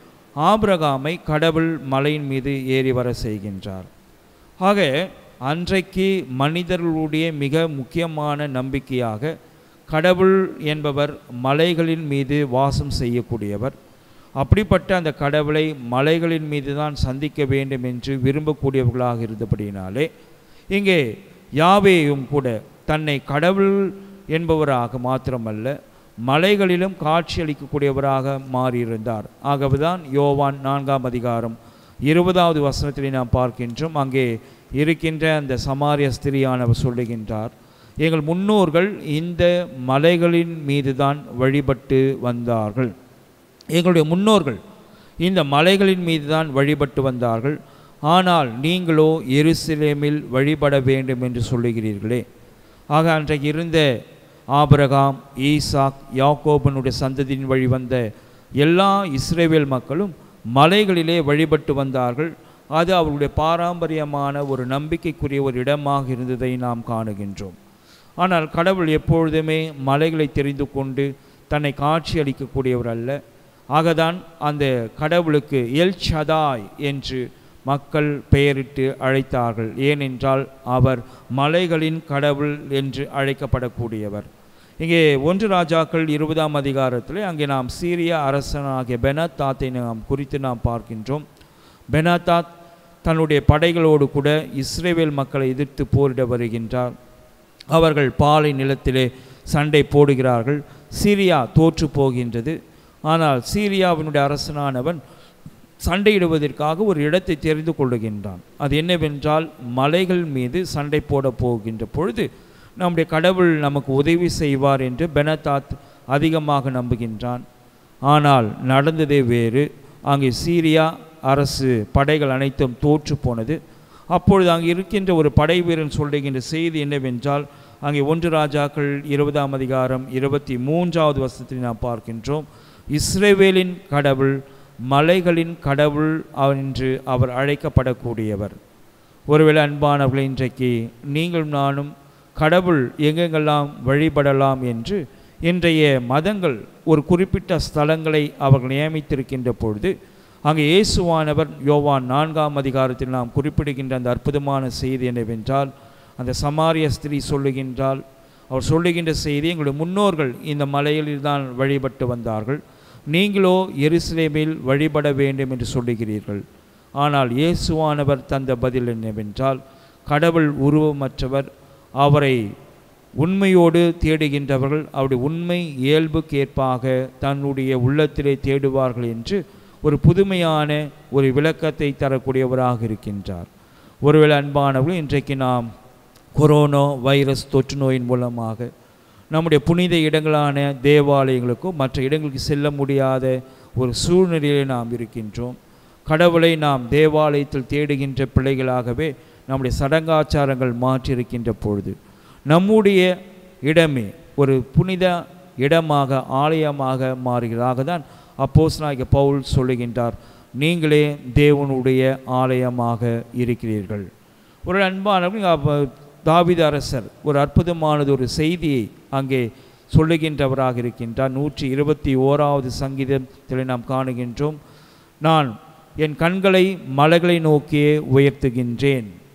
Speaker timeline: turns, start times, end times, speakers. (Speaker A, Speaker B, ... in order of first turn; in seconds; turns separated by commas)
Speaker A: 0.4-3.9, Speaker A: 4.6-4.9, Speaker A: 5.5-9.3, Speaker A: 9.9-13.8, Speaker A: 14.4-20.1, Speaker A: 20.7-21.0, Speaker A: 21.6-25.8, Speaker A: 26.3-42.9, Speaker A: 43.7-44.6, Speaker A: 45.2-52.2, Speaker A: 52.9-53.9, Speaker A: 54.5-58.0, Speaker A: 58.6-67.5, Speaker A: 68.2-73.2, Speaker A: 73.8-84.3, Speaker A: 84.8-91.2, Speaker A: 91.9-92.5, Speaker A: 93.0-96.9, Speaker A: 97.7-102.5, Speaker A: 103.1-105.0, Speaker A: 105.8-117.4, Speaker A: 118.1-123.6, Speaker A: 124.1-138.6, Speaker A: 139.3-149.9, Speaker A: 150.4-162.6, Speaker A: 163.1-166.4, Speaker A: 167.0-171.5, Speaker A: 172.0-172.4, Speaker A: 173.2-183.5, Speaker A: 184.0-185.7, Speaker A: 186.3-188.7, Speaker A: 189.3-195.6, Speaker A: 196.1-201.9, Speaker A: 202.5-203.1, Speaker A: 203.6-214.1, Speaker A: 214.7-224.6, Speaker A: 225.2-229.1